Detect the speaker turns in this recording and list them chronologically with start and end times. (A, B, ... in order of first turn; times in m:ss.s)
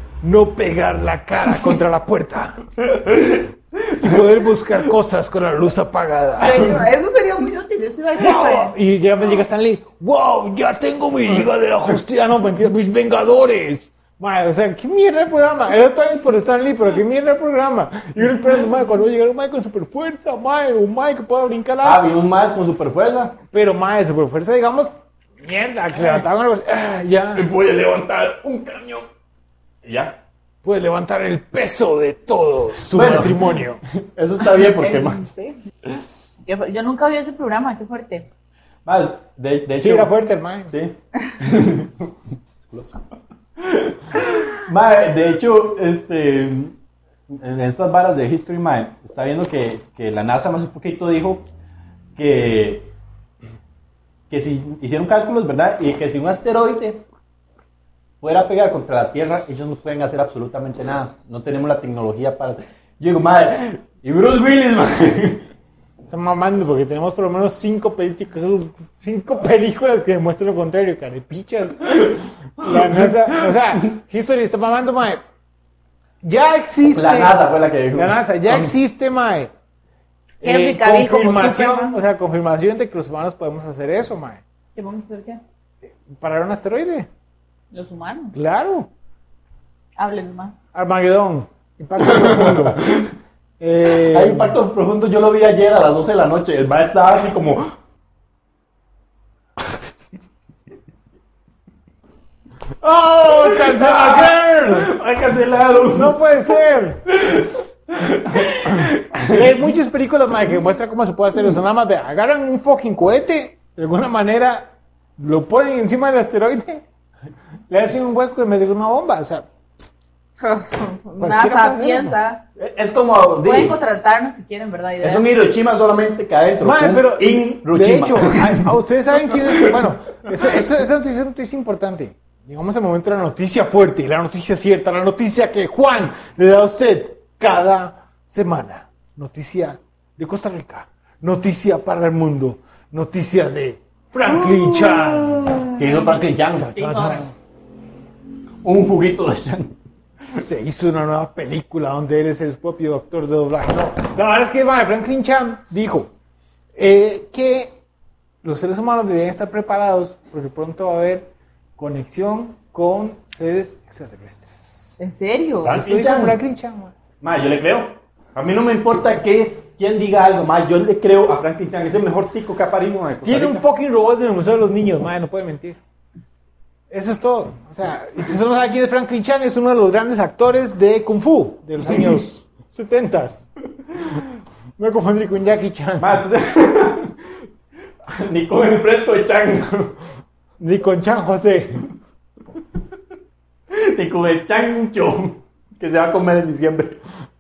0:00.2-0:02.6 A
0:03.2-0:04.1 B
0:04.0-0:06.7 A
0:06.4-0:08.8 C
0:06.4-0:06.7 B
0:08.2-0:22.1 A
0:21.8-0:23.4 B
0:23.5-0:27.4 A
0:27.3-0:29.1 B
0:29.8-0:30.2 B
0:30.6-0:33.8 A
0:32.9-0:35.2 B
0:34.5-0:35.6 C
0:36.4-0:38.3 C
0:38.8-0:40.1 B
0:39.8-0:40.7 A
0:40.7-0:42.1 B
0:42.7-0:43.0 B
0:43.6-0:46.8 B
0:47.3-0:51.5 B
0:52.2-0:52.9 B
0:54.3-0:57.0 B
0:58.2-1:05.5 B
1:06.1-1:15.2 A
1:12.0-1:13.1 B
1:16.2-1:17.4 A
1:16.9-1:18.7 B
1:18.0-1:19.5 A
1:20.4-1:24.4 A
1:20.4-1:22.0 C
1:24.8-1:25.4 C
1:26.0-1:27.1 A
1:27.7-1:28.4 C
1:28.3-1:28.9 A
1:30.0-1:30.6 C
1:30.7-1:32.8 A
1:32.0-1:33.1 B
1:33.6-1:34.6 A
1:33.9-1:37.8 B
1:42.8-1:44.9 A
1:43.3-1:46.2 B
1:46.0-1:47.0 A
1:47.1-1:49.5 B
1:48.7-1:56.8 A
1:57.7-1:59.5 A
2:00.4-2:02.4 C
2:01.2-2:02.2 A
2:02.6-2:03.8 B
2:03.4-2:05.4 C
2:05.0-2:09.8 B
2:06.6-2:25.6 A
2:24.6-2:24.9 B
2:25.7-2:26.7 B
2:26.6-2:27.3 A
2:26.7-2:27.2 C
2:28.6-2:29.8 B
2:30.4-2:36.1 A
2:36.8-2:37.8 A
2:38.4-2:44.9 A
2:45.0-2:45.8 C
2:45.6-2:46.4 B
2:45.7-2:46.9 A
2:47.2-2:53.6 B
2:53.2-2:55.8 A
2:56.9-3:03.5 A
3:04.8-3:06.2 A
3:06.0-3:07.4 B
3:08.1-3:10.0 B
3:10.6-3:11.9 A
3:13.7-3:17.0 B